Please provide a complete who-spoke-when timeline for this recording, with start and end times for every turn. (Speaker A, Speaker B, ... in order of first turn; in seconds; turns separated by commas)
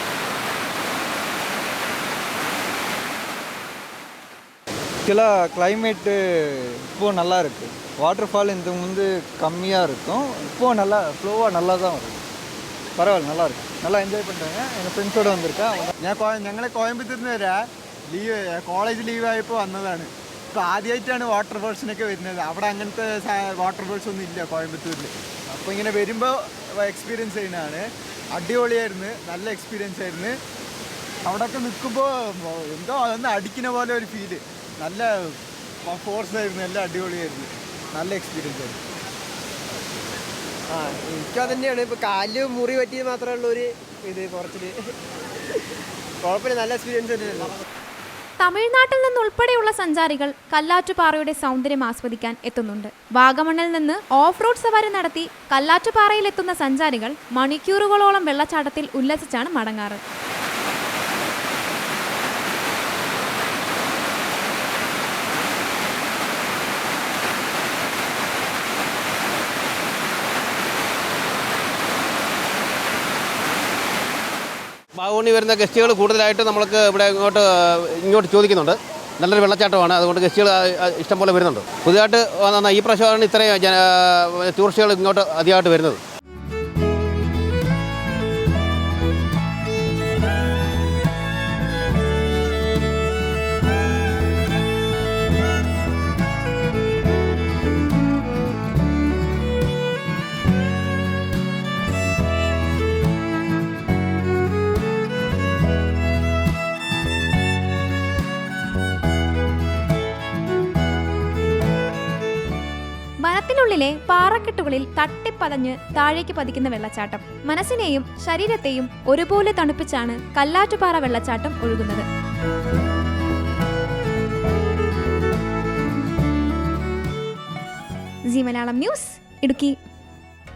Speaker A: 5.0-12.2, Speaker A: 13.0-15.9, Speaker B: 16.0-17.6, Speaker B: 18.1-30.3, Speaker B: 31.2-35.3, Speaker B: 35.8-38.8, Speaker C: 40.7-44.7, Speaker C: 46.2-47.5, Speaker D: 48.4-60.0, Speaker E: 75.0-86.0, Speaker D: 113.2-122.0, Speaker D: 128.3-129.8